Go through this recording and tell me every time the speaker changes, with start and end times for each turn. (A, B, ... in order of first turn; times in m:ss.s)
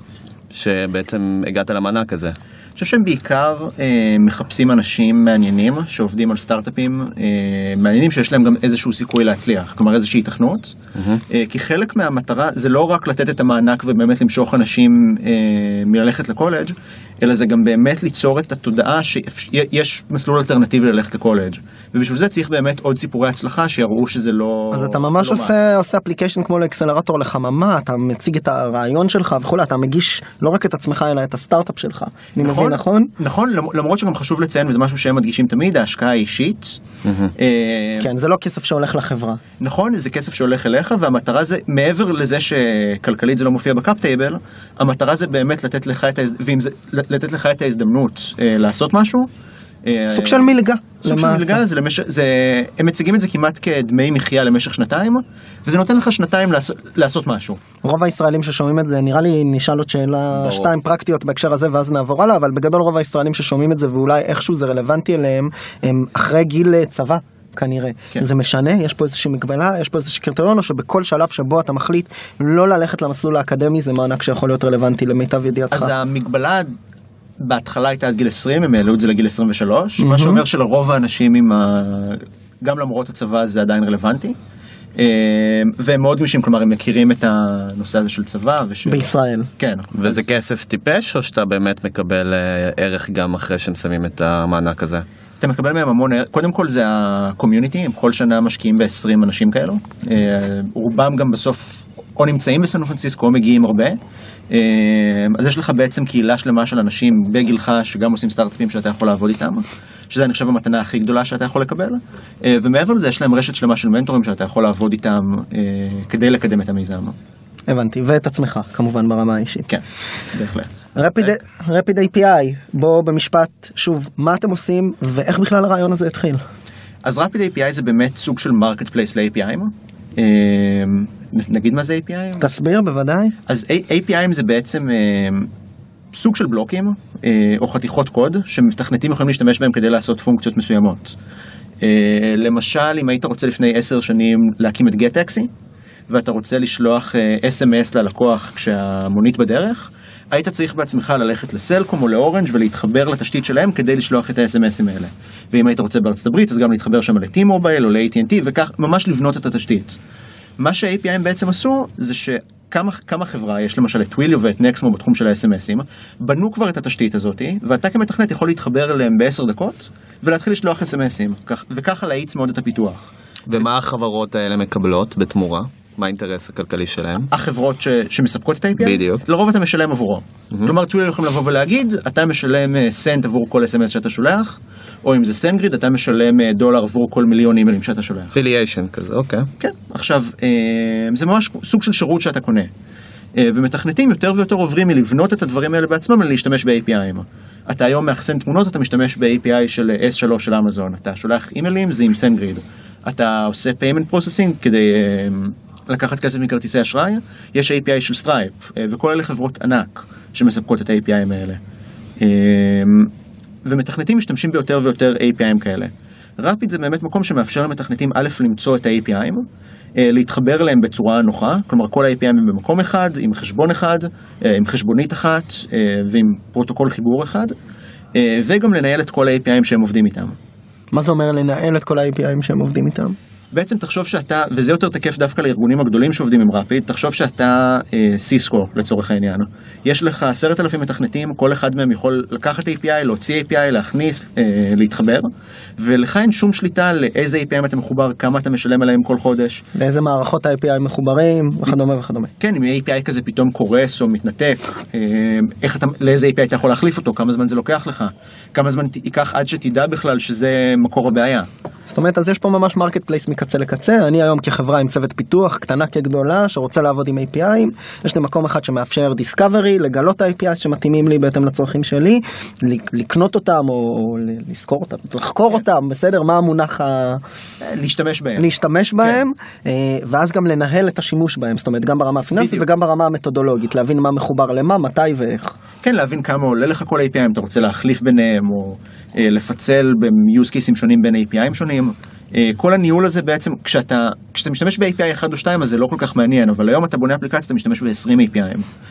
0:00.5-0:02.4 A
0:02.8-0:10.8 B
0:11.0-0:11.2 A
0:11.3-0:25.6 B
0:24.7-0:33.1 C
0:32.4-0:36.8 B
0:37.0-0:37.3 A
0:37.3-0:38.1 B
0:38.0-0:39.4 C
0:39.6-0:49.3 B
0:49.8-0:57.6 B
0:50.1-0:51.6 C
0:57.8-1:15.9 C
1:00.4-1:00.6 A
1:15.7-1:16.7 B
1:17.4-1:24.4 B
1:20.0-1:20.4 C
1:25.0-1:30.3 B
1:28.9-1:29.5 C
1:29.9-1:35.0 A
1:35.4-1:44.0 B
1:44.5-1:57.1 B
1:57.7-1:59.7 C
1:59.7-2:00.8 B
2:00.9-2:06.4 C
2:07.0-2:12.5 B
2:12.4-2:13.3 C
2:13.5-2:15.5 B
2:16.1-2:21.2 B
2:21.8-2:25.5 B
2:26.1-2:40.0 B
2:40.6-2:53.6 B
2:53.5-2:57.3 A
2:57.3-3:08.3 B
2:58.8-2:59.2 A
3:08.3-3:09.5 A
3:09.6-3:12.7 B
3:13.3-3:31.6 B
3:32.2-3:33.1 B
3:33.6-3:39.4 B
3:40.0-3:47.5 B
3:48.1-3:50.3 B
3:50.9-3:53.2 C
3:53.5-4:09.6 B
4:09.7-4:12.3 C
4:12.4-4:21.5 B
4:21.9-4:37.2 C
4:37.6-4:38.4 B
4:38.4-4:45.6 C
4:42.4-4:42.6 B
4:45.8-4:58.6 B